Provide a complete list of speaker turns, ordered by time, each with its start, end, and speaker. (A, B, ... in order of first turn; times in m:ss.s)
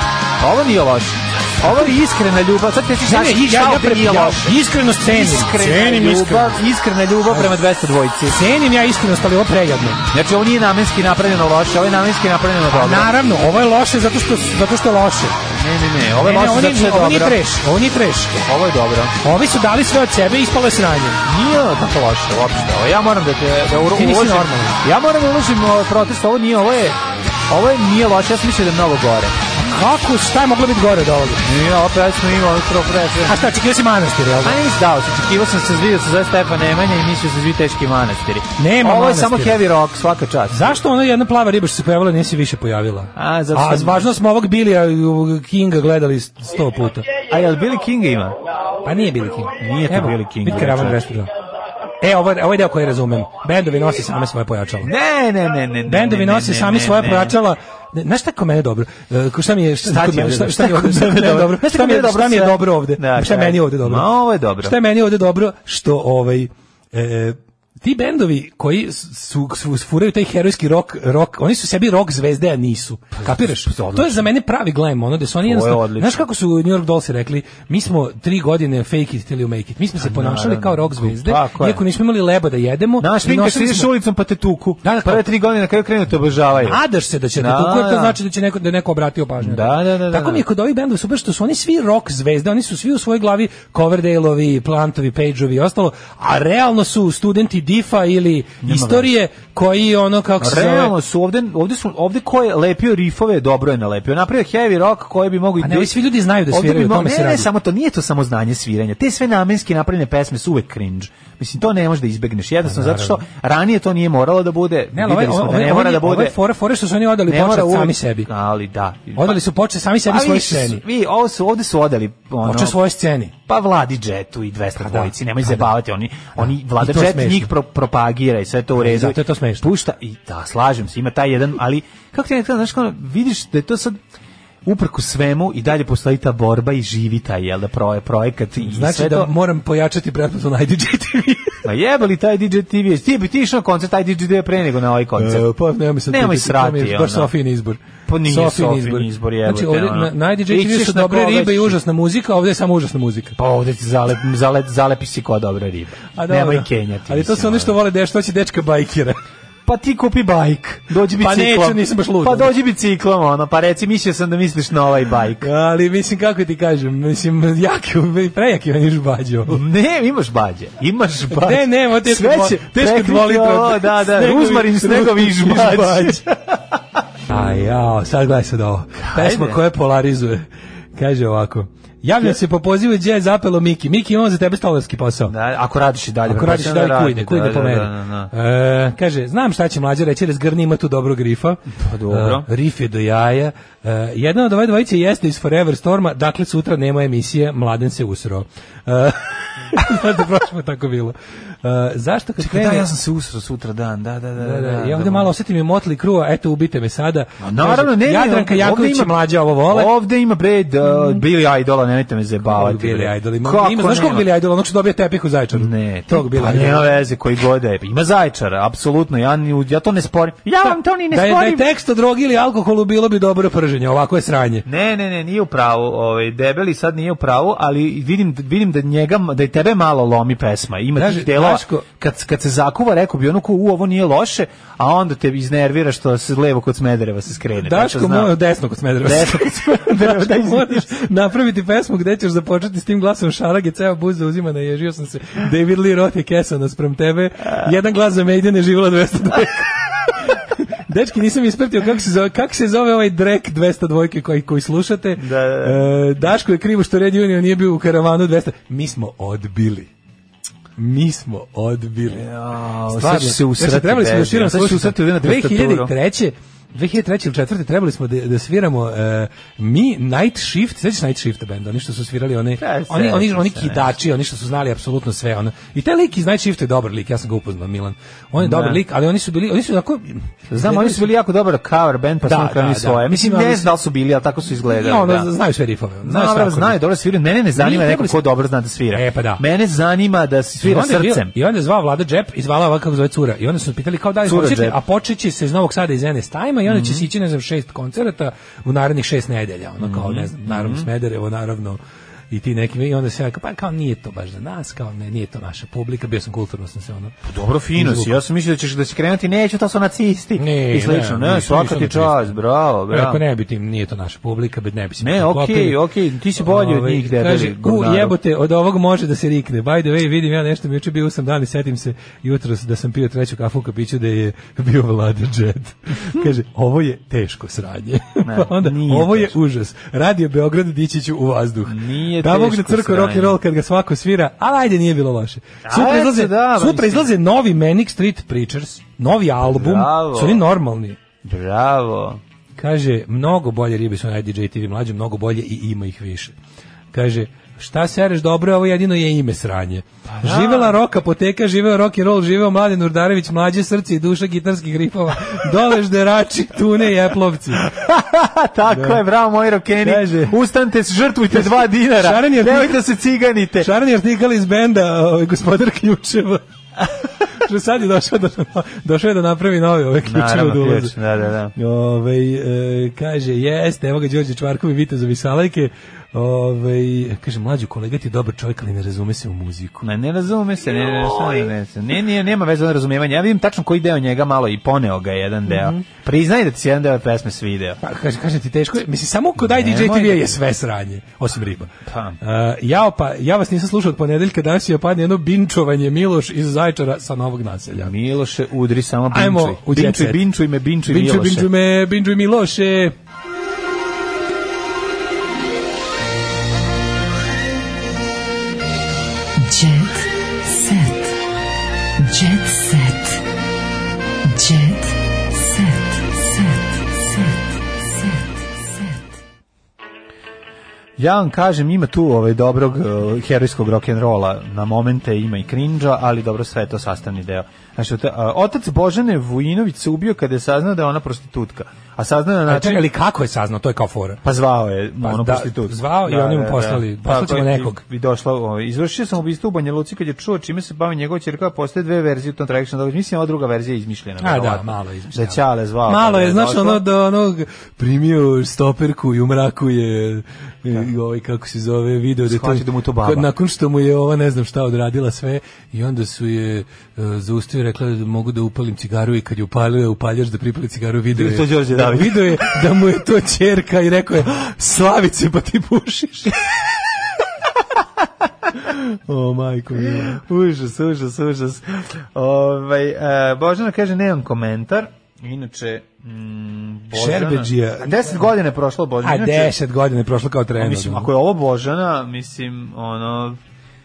0:00.4-0:08.4 A
0:03.0-0:06.6 B
0:08.3-0:10.0 B
0:10.1-0:13.1 A
0:12.7-0:15.4 B
0:15.6-0:17.4 A
0:16.2-0:18.4 B
0:18.4-0:19.2 A
0:19.2-0:21.2 B
0:21.2-0:29.4 A
0:23.9-0:24.8 B
0:29.6-0:31.5 B
0:31.4-0:33.4 A
0:33.2-0:34.6 B
0:34.4-0:40.8 A
0:38.6-0:39.6 B
0:40.5-0:47.0 B
0:43.2-0:44.0 A
0:47.3-0:48.4 A
0:48.8-0:51.3 B
0:49.6-0:51.1 A
0:52.0-0:54.9 B
0:54.8-0:57.4 A
0:55.9-1:04.1 B
0:59.8-1:04.8 A
1:04.6-1:23.9 B
1:13.1-1:14.3 A
1:15.4-1:16.2 A
1:20.0-1:21.8 A
1:23.0-1:26.8 A
1:24.8-1:25.2 B
1:26.6-1:40.9 B
1:27.4-1:28.2 A
1:29.4-1:30.4 A
1:38.6-1:39.1 A
1:40.4-1:56.4 A
1:45.6-1:47.5 B
1:52.6-1:53.2 B
1:54.9-1:58.3 B
1:57.3-1:59.4 A
1:59.2-2:00.8 B
2:00.0-2:02.8 A
2:02.4-2:03.3 B
2:03.5-2:14.0 A
2:04.8-2:05.7 B
2:06.8-2:07.5 B
2:08.8-2:09.7 B
2:14.6-2:19.3 A
2:18.6-2:21.6 B
2:21.6-2:25.5 A
2:25.2-2:33.4 B
2:26.1-2:27.3 A
2:28.1-2:31.8 A
2:33.4-2:37.8 A
2:36.1-2:39.2 B
2:39.6-2:45.5 A
2:41.1-2:42.5 B
2:45.4-2:49.6 B
2:49.5-2:56.8 A
2:51.3-2:56.2 B
2:57.3-3:05.3 B
2:59.0-2:59.6 A
3:05.3-3:08.3 A
3:06.2-3:22.9 B
3:11.8-3:12.5 A
3:22.4-3:25.3 A
3:24.4-3:29.9 B
3:27.4-3:34.3 A
3:32.4-3:36.9 B
3:35.5-3:41.6 A
3:40.6-3:44.6 B
3:44.6-3:58.4 A
3:51.0-3:51.8 B
3:57.6-4:19.9 B
3:59.0-4:00.9 A
4:15.2-4:15.9 A
4:20.8-4:22.2 B
4:22.1-4:25.9 A
4:22.9-4:41.1 B
4:32.6-4:33.9 A
4:38.4-4:38.8 A
4:40.5-4:45.3 A
4:42.2-4:43.7 B
4:44.8-4:46.8 B
4:46.0-4:51.3 A
4:47.6-4:48.2 B
4:48.9-4:49.4 B
4:50.6-5:01.8 B
4:54.2-4:54.8 A
4:56.6-4:57.1 A
4:59.8-5:00.9 A
5:02.3-5:07.1 B
5:07.2-5:13.2 A
5:07.7-5:08.2 B
5:10.4-5:12.3 B
5:12.9-5:15.8 B
5:15.0-5:18.2 A
5:16.4-5:41.0 B
5:28.2-5:29.3 A
5:31.6-5:33.4 A
5:35.6-5:37.1 A
5:39.4-5:40.4 A
5:41.2-5:42.2 A
5:42.6-5:46.3 B
5:46.9-5:57.7 B
5:50.1-5:50.8 A
5:57.5-6:03.7 A
5:58.7-5:59.0 B
5:59.8-6:00.3 B
6:01.3-6:02.8 B
6:03.6-6:06.4 B
6:07.4-6:10.9 B
6:10.0-6:11.5 A
6:11.6-6:19.8 B
6:19.8-6:27.8 A
6:25.5-6:25.8 B
6:27.8-6:37.9 B
6:29.4-6:30.3 A
6:31.9-6:32.2 A
6:37.7-6:41.5 A
6:39.1-6:40.2 B
6:40.8-6:42.9 B
6:49.4-6:51.0 C
6:52.0-6:53.2 C
6:54.3-6:56.6 C
7:01.0-7:12.9 A
7:12.5-7:14.2 B
7:14.2-7:26.8 A
7:15.0-7:17.8 B
7:24.2-7:46.4 B
7:32.2-7:33.3 A
7:41.1-7:42.4 A
7:48.6-7:50.2 B
7:49.8-7:59.5 A
7:56.9-7:58.2 B
7:59.0-8:01.1 B
8:00.6-8:03.4 A